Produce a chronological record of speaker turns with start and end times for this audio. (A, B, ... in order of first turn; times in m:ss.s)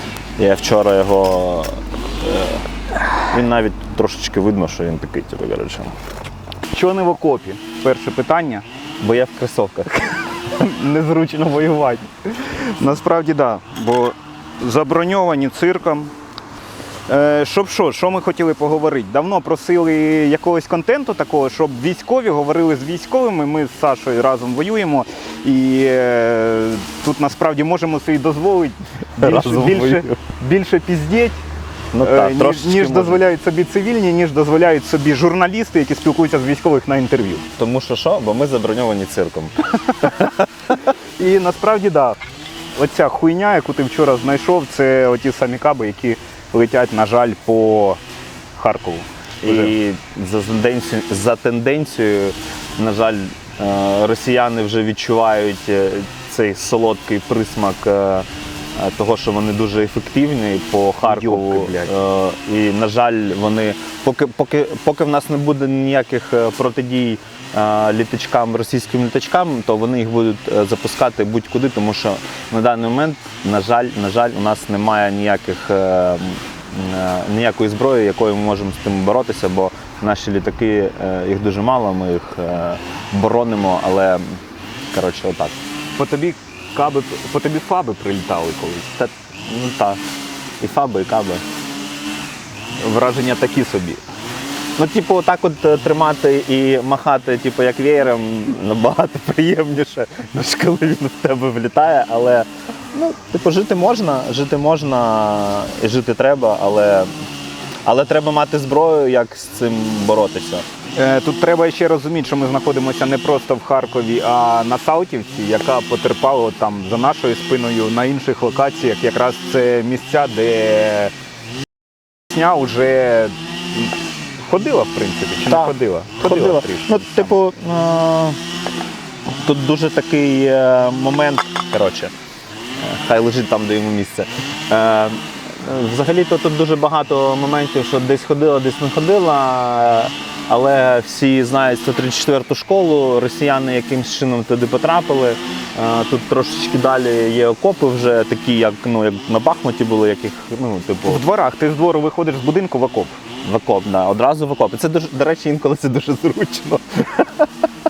0:00.4-0:02.6 A
0:03.2-0:05.9 A
0:06.7-0:08.6 B
0:09.0-0:10.3 A
0:10.5-0:16.1 B
0:17.1-0:31.4 B
0:29.2-0:30.2 A
0:31.9-0:33.2 A
0:32.0-0:37.4 B
0:37.6-0:40.4 A
0:41.2-0:42.2 B
0:42.8-0:48.0 B
0:48.5-0:49.7 B
0:49.4-1:24.4 A
1:01.0-1:01.9 B
1:24.9-1:25.6 A
1:26.0-1:28.8 B
1:28.9-1:30.0 A
1:30.6-1:31.4 A
1:32.8-1:34.0 B
1:34.8-1:47.1 A
1:47.8-1:50.6 A
1:51.0-2:01.1 B
2:02.3-2:03.9 B
2:04.4-2:07.4 B
2:05.4-2:08.4 A
2:09.3-2:12.1 A
2:12.8-2:31.2 A
2:31.0-2:33.2 B
2:33.4-2:37.5 A